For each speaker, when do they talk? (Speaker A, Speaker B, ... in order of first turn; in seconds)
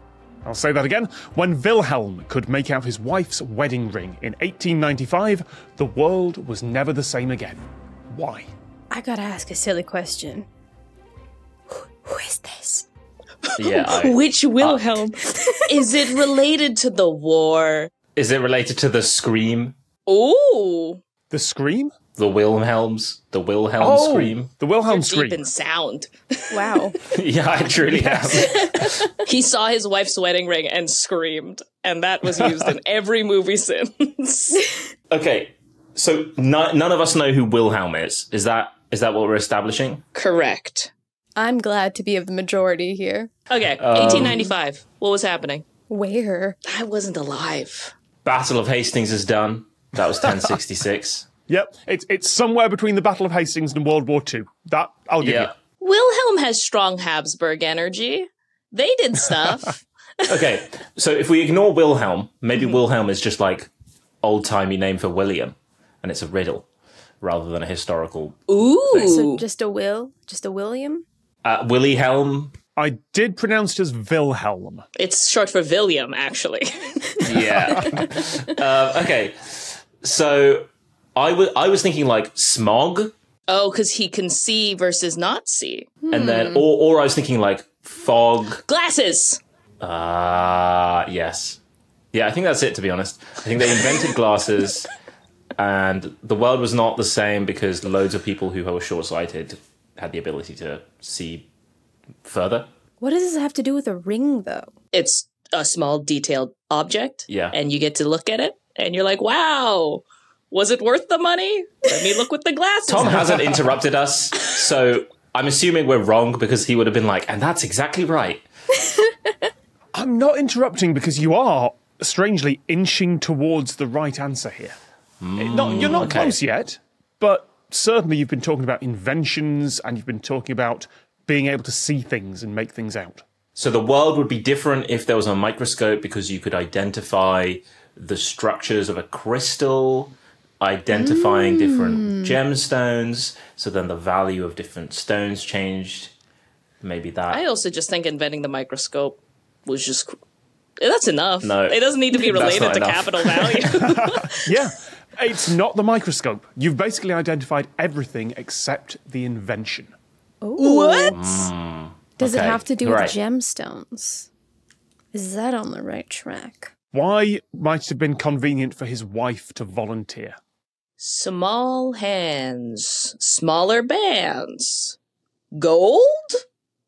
Speaker A: 0.4-8.5, 21.3-21.9, 23.8-25.4, 27.9-28.6, 51.5-55.5, 72.8-74.8, 112.9-113.3, 119.9-124.8, 125.4-133.2, 153.8-159.9, 166.9-170.4
Speaker B: 8.9-10.4, 11.7-12.8, 15.3-15.7, 26.5-27.0, 41.4-43.3, 45.9-46.6, 69.0-71.0, 86.1-86.6, 103.0-104.7, 118.8-119.1, 141.0-142.3, 160.4-161.5, 162.2-164.3, 165.1-166.7
Speaker C: 13.4-17.9, 20.1-21.0, 24.9-26.8, 28.4-34.7, 40.1-40.9, 43.5-45.6, 46.6-47.9, 55.8-60.4, 68.5-69.4, 75.0-77.7, 83.5-86.0, 88.6-89.4, 104.9-113.7, 147.3-150.2, 150.8-154.4, 160.6-161.2, 171.0-175.0, 175.5-176.4
Speaker D: 13.6-14.8, 18.1-19.7, 22.1-24.5, 27.1-29.0, 35.1-40.0, 43.8-44.5, 48.2-51.2, 55.2-55.5, 60.3-63.7, 64.2-66.7, 67.2-68.4, 68.9-69.2, 71.4-72.5, 77.2-83.1, 86.1-88.6, 89.8-91.6, 92.1-94.9, 95.6-101.5, 102.2-102.7, 107.3-107.5, 112.9-118.4, 125.2-126.4, 133.5-146.1, 146.8-147.4, 151.4-153.6, 161.1-163.2